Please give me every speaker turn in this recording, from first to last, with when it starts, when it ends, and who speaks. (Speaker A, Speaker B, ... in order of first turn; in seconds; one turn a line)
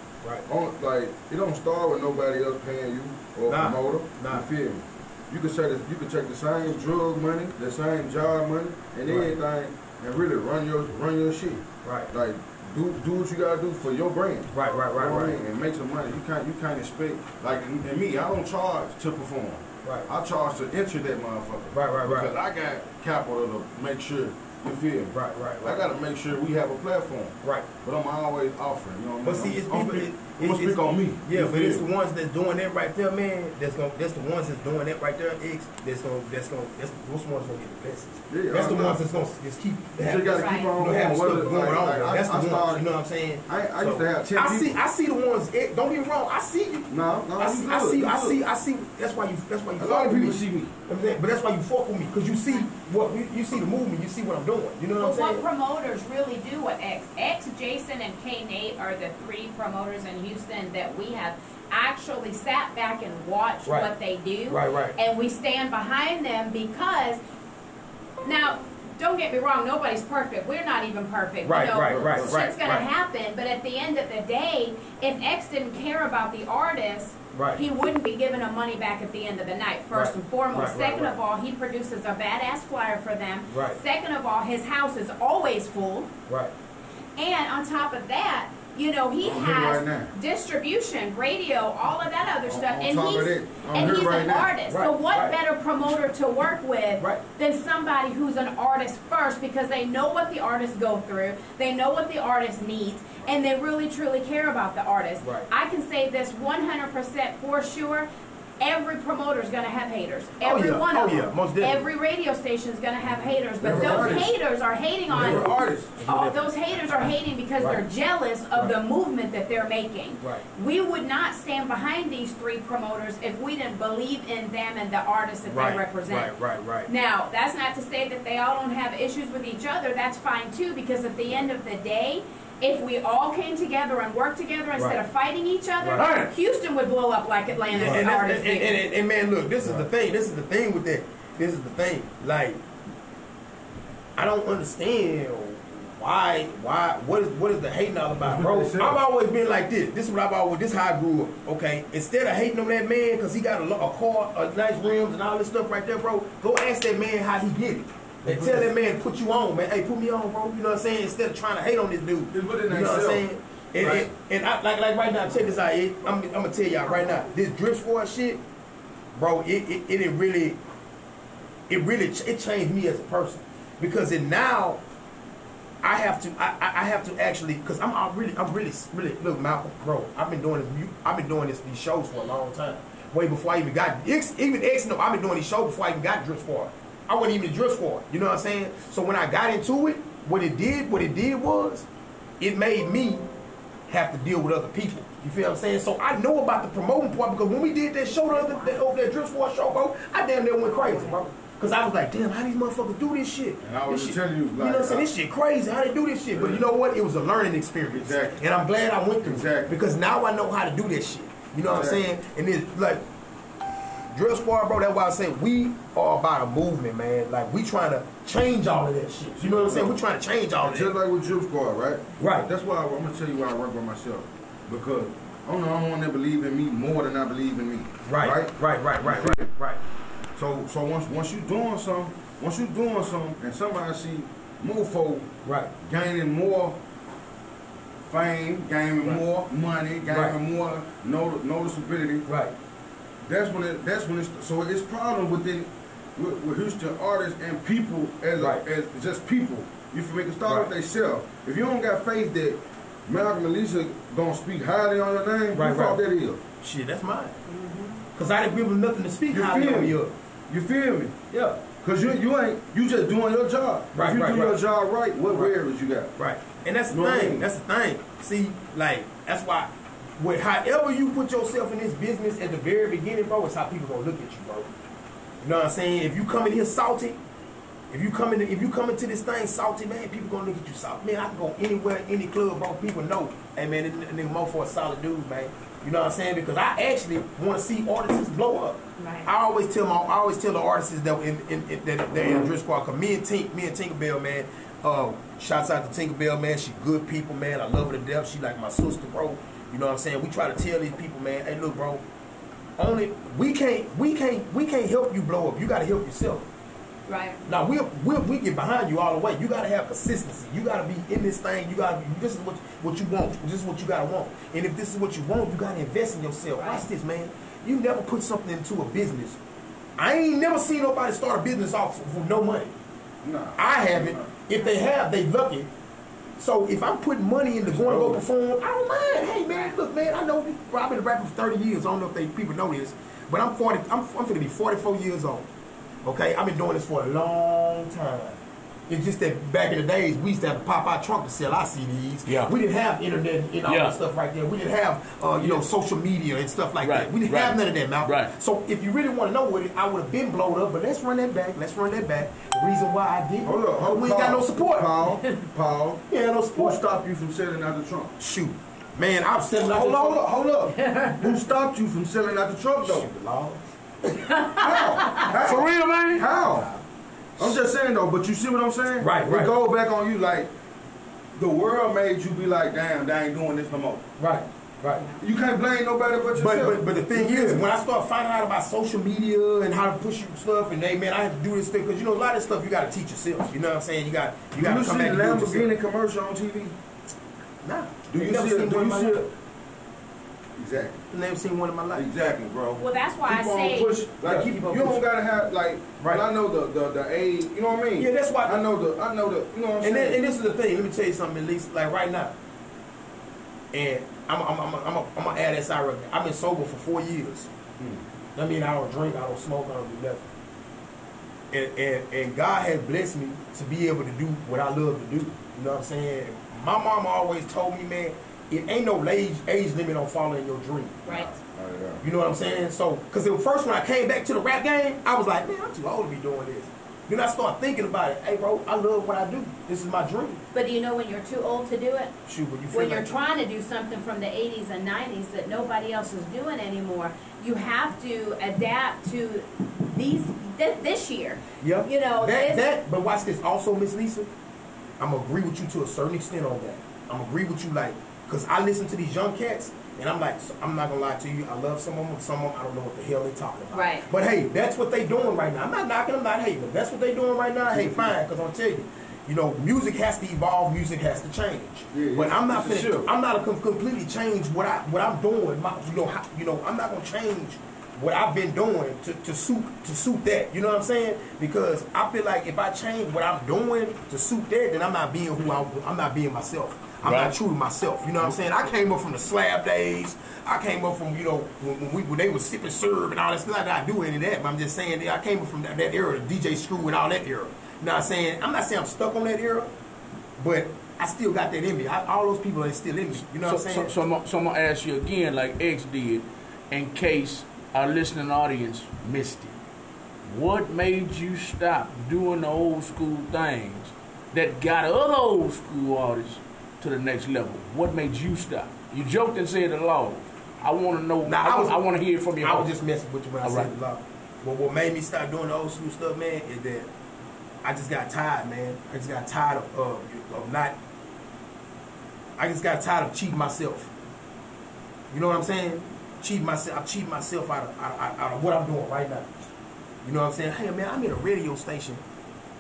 Speaker A: 0.5-31.8
Speaker B: 3.5-4.5
Speaker B: 9.1-9.4
Speaker B: 11.8-12.1
Speaker B: 14.5-15.4
Speaker B: 19.8-20.1
Speaker B: 21.7-22.4
Speaker B: 25.1-25.8
Speaker B: 29.2-55.4
Speaker A: 38.3-39.0
Speaker A: 40.0-42.9
Speaker C: 40.3-40.7
Speaker A: 43.5-44.7
Speaker A: 46.9-48.4
Speaker A: 49.8-50.7
Speaker C: 55.0-67.2
Speaker B: 63.6-63.9
Speaker B: 64.5-65.0
Speaker C: 68.2-86.1
Speaker B: 71.4-72.9
Speaker A: 71.8-72.4
Speaker B: 77.3-77.6
Speaker B: 79.9-81.2
Speaker B: 83.5-83.8
Speaker B: 86.3-86.5
Speaker C: 87.2-108.1
Speaker A: 89.2-90.1
Speaker A: 92.5-94.5
Speaker B: 94.7-95.4
Speaker B: 105.2-105.5
Speaker C: 108.6-126.3
Speaker B: 110.4-111.9
Speaker A: 113.6-114.4
Speaker B: 113.6-114.3
Speaker A: 115.1-115.9
Speaker B: 115.1-117.8
Speaker B: 125.5-126.9
Speaker C: 126.9-138.8
Speaker B: 134.8-135.0
Speaker B: 135.8-136.1
Speaker D: 135.9-136.3
Speaker B: 137.7-142.6
Speaker A: 139.6-139.9
Speaker B: 144.2-168.4
Speaker A: 148.2-149.0
Speaker A: 158.2-158.7
Speaker A: 162.3-163.3
Speaker A: 163.8-164.1
Speaker B: 169.2-170.6
Speaker B: 171.7-174.8
Speaker B: 175.8-191.9
Speaker B: 192.4-193.3
Speaker B: 193.9-213.0
Speaker C: 198.3-198.8
Speaker C: 200.7-201.3
Speaker A: 203.6-205.1
Speaker A: 206.3-206.6
Speaker A: 207.9-208.4
Speaker A: 209.2-209.8
Speaker A: 211.7-212.0
Speaker B: 214.1-220.9
Speaker A: 219.4-220.0
Speaker A: 220.6-229.5
Speaker B: 222.2-222.5
Speaker B: 228.0-229.8
Speaker A: 230.4-236.8
Speaker B: 235.4-235.7
Speaker A: 238.1-242.3
Speaker B: 239.0-239.4
Speaker B: 240.1-240.4
Speaker B: 242.3-242.5
Speaker A: 243.2-256.4
Speaker B: 248.4-248.7
Speaker B: 250.4-250.7
Speaker B: 255.5-256.0
Speaker B: 256.6-257.4
Speaker C: 257.5-258.0
Speaker B: 258.1-260.1
Speaker A: 259.3-266.1
Speaker B: 261.3-261.6
Speaker B: 263.9-264.6
Speaker B: 265.3-265.6
Speaker B: 266.2-274.7
Speaker A: 266.9-267.5
Speaker B: 275.4-277.2
Speaker B: 277.9-302.0
Speaker C: 289.0-289.3
Speaker B: 302.8-306.5
Speaker C: 307.1-307.4
Speaker B: 307.4-319.4
Speaker C: 316.6-316.8
Speaker B: 320.0-322.7
Speaker A: 323.2-324.3
Speaker B: 323.6-325.7
Speaker B: 326.4-335.5
Speaker A: 327.7-328.2
Speaker C: 329.4-329.7
Speaker B: 336.0-354.9
Speaker D: 342.3-342.5
Speaker D: 343.7-344.0
Speaker D: 346.8-348.3
Speaker A: 353.4-358.1
Speaker B: 356.1-356.8
Speaker B: 358.2-360.3
Speaker A: 359.6-363.1
Speaker C: 360.9-361.2
Speaker B: 362.8-363.6
Speaker C: 364.3-365.2
Speaker A: 364.6-366.7
Speaker D: 365.3-366.3
Speaker A: 367.4-370.5
Speaker B: 369.0-369.5
Speaker A: 371.4-374.1
Speaker B: 374.2-375.1
Speaker A: 375.2-377.7
Speaker B: 376.3-385.7
Speaker A: 384.6-386.8
Speaker B: 387.6-389.3
Speaker A: 388.1-389.3
Speaker A: 390.6-391.0
Speaker B: 391.1-392.1
Speaker A: 391.9-400.2
Speaker C: 392.8-394.0
Speaker B: 394.2-395.0
Speaker B: 398.0-398.6
Speaker B: 399.8-402.3
Speaker B: 403.7-407.5
Speaker B: 408.4-410.3
Speaker B: 411.5-421.3
Speaker A: 421.3-422.0
Speaker B: 422.0-430.4
Speaker C: 430.5-432.1
Speaker B: 432.3-433.1
Speaker C: 432.7-442.6
Speaker B: 441.6-444.3
Speaker B: 445.0-489.7
Speaker C: 453.7-454.1
Speaker A: 457.7-458.1
Speaker A: 461.9-463.1
Speaker D: 477.0-477.3
Speaker B: 490.4-493.9
Speaker D: 493.4-499.6
Speaker D: 500.3-512.7
Speaker B: 511.2-511.8
Speaker B: 512.4-516.9
Speaker D: 513.4-513.7
Speaker B: 517.6-520.8
Speaker B: 522.4-523.9
Speaker B: 525.1-529.3
Speaker B: 530.0-532.0